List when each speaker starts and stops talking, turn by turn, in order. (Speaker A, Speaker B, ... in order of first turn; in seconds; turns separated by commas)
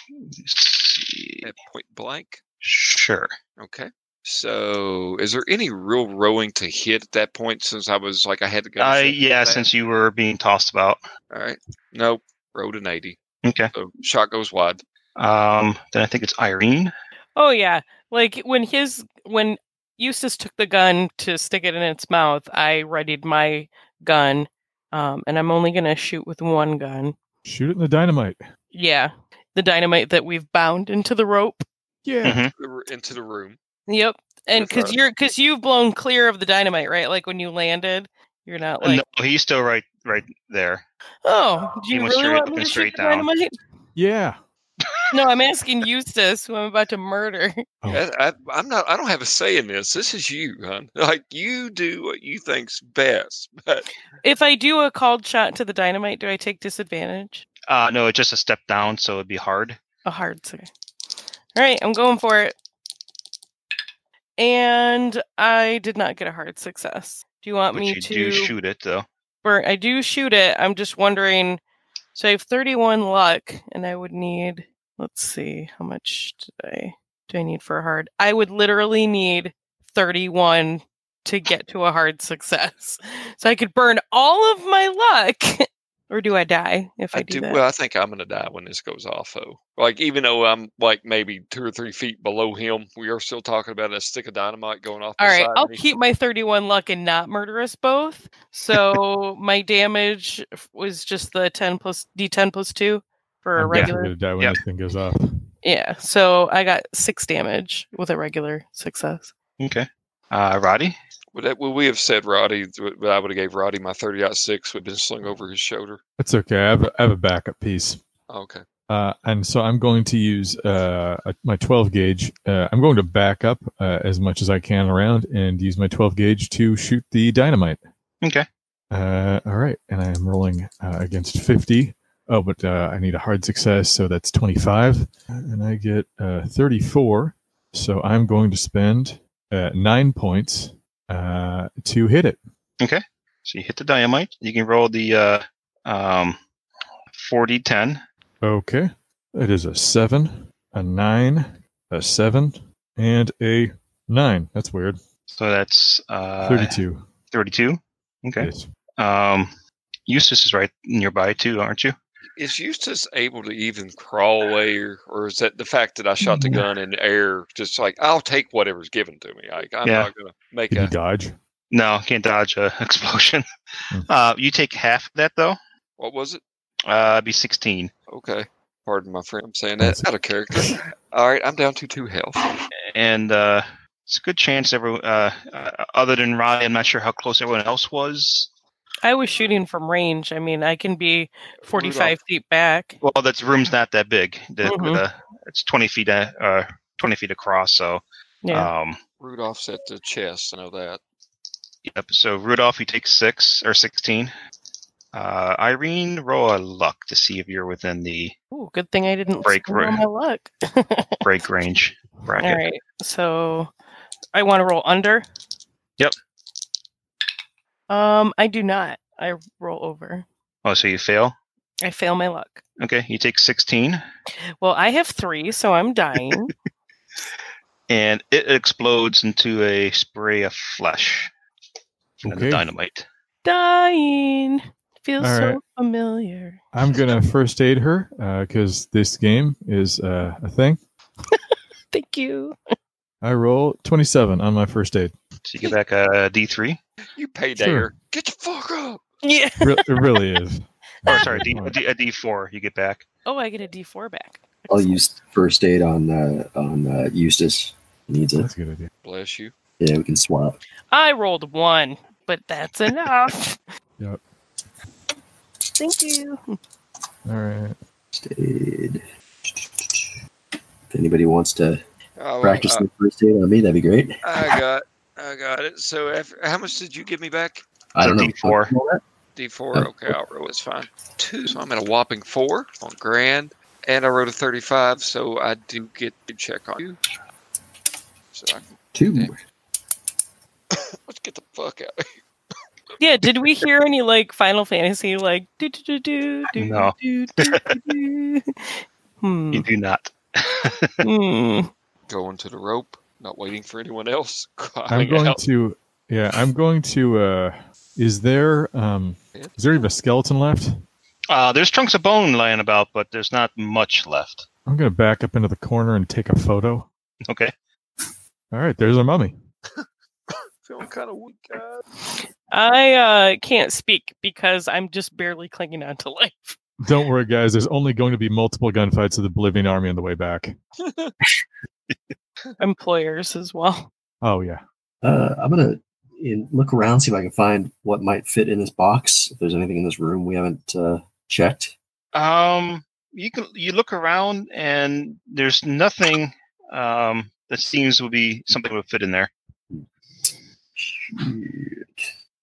Speaker A: 0.4-1.4, Speaker B: 1.4-2.4, Speaker A: 2.6-3.3, Speaker B: 3.6-9.7, Speaker A: 8.8-11.0, Speaker B: 11.3-13.2, Speaker A: 13.4-13.7, Speaker B: 13.7-14.8, Speaker A: 15.2-16.9, Speaker C: 17.4-27.2, Speaker D: 27.4-28.4, Speaker C: 28.7-31.6, Speaker D: 32.0-32.4, Speaker A: 32.2-32.5, Speaker B: 32.6-33.6, Speaker C: 33.9-39.0, Speaker B: 34.5-35.0, Speaker A: 38.8-40.8, Speaker C: 41.2-43.6, Speaker A: 41.9-43.3, Speaker D: 44.0-44.4, Speaker C: 45.1-47.6, Speaker B: 47.9-53.9, Speaker C: 54.2-57.5, Speaker A: 57.7-59.8, Speaker C: 60.0-60.7, Speaker C: 61.5-62.5, Speaker C: 64.4-68.5, Speaker A: 67.7-69.1, Speaker C: 69.4-71.6, Speaker C: 72.2-87.6, Speaker B: 87.1-95.8, Speaker C: 95.2-104.1, Speaker D: 103.6-105.5, Speaker A: 103.7-104.6, Speaker C: 105.6-109.3, Speaker A: 109.6-111.0, Speaker B: 111.3-116.0, Speaker D: 116.2-118.0, Speaker B: 118.3-118.6, Speaker D: 118.9-127.8, Speaker D: 128.9-142.4, Speaker A: 142.8-146.4, Speaker A: 147.1-148.0, Speaker D: 148.4-155.0, Speaker A: 155.3-156.8, Speaker D: 156.4-157.1, Speaker A: 157.3-159.5, Speaker D: 158.4-158.7, Speaker A: 160.1-161.9, Speaker B: 162.4-170.9, Speaker D: 170.7-171.4, Speaker A: 171.7-173.4, Speaker A: 174.1-175.6, Speaker B: 176.0-176.4, Speaker A: 176.9-177.9, Speaker B: 178.1-182.4, Speaker D: 179.8-180.7, Speaker A: 182.9-188.5, Speaker C: 189.0-193.0, Speaker B: 191.6-192.2, Speaker A: 193.0-199.0, Speaker C: 194.6-195.0, Speaker C: 198.4-198.7, Speaker B: 199.2-201.0, Speaker A: 201.8-204.3, Speaker A: 205.1-208.3, Speaker C: 208.5-211.3, Speaker A: 209.4-210.0, Speaker A: 211.2-212.6, Speaker C: 212.4-213.7, Speaker C: 214.3-215.2, Speaker C: 217.9-220.3, Speaker A: 220.7-221.4, Speaker C: 221.8-222.6, Speaker A: 222.8-224.0, Speaker C: 224.6-226.5, Speaker A: 227.9-231.3, Speaker A: 232.2-233.1, Speaker D: 232.2-232.7, Speaker C: 233.4-236.6, Speaker D: 235.2-235.6, Speaker D: 236.7-240.8, Speaker C: 241.9-242.6, Speaker D: 243.2-245.1, Speaker A: 245.5-246.8, Speaker B: 247.2-249.0, Speaker D: 247.6-247.9, Speaker C: 249.2-250.2, Speaker D: 249.6-251.7, Speaker C: 251.1-251.5, Speaker A: 251.1-253.1, Speaker C: 253.3-255.0, Speaker E: 254.7-258.5, Speaker D: 258.4-258.9, Speaker B: 259.0-259.5, Speaker E: 259.8-260.6, Speaker C: 260.9-263.6, Speaker C: 265.8-266.6, Speaker D: 267.3-267.8, Speaker E: 268.1-270.2, Speaker E: 270.9-271.8, Speaker B: 272.2-272.9, Speaker E: 272.4-274.6, Speaker B: 274.2-277.6, Speaker E: 277.9-279.0, Speaker A: 278.0-278.7, Speaker B: 279.4-287.0, Speaker E: 279.7-280.2, Speaker B: 288.3-289.3, Speaker E: 288.9-289.4, Speaker B: 290.7-292.2, Speaker C: 293.0-299.7, Speaker A: 296.6-297.8, Speaker A: 299.5-301.0, Speaker C: 301.0-301.7, Speaker B: 302.1-305.4, Speaker D: 304.9-310.8, Speaker A: 311.3-314.5, Speaker D: 314.7-316.9, Speaker D: 318.5-319.4, Speaker B: 319.8-321.8, Speaker C: 322.1-326.6, Speaker D: 326.8-330.6, Speaker B: 330.8-331.1, Speaker C: 332.6-333.9, Speaker D: 334.2-334.6, Speaker E: 335.0-341.7, Speaker A: 342.1-349.3, Speaker E: 349.7-351.9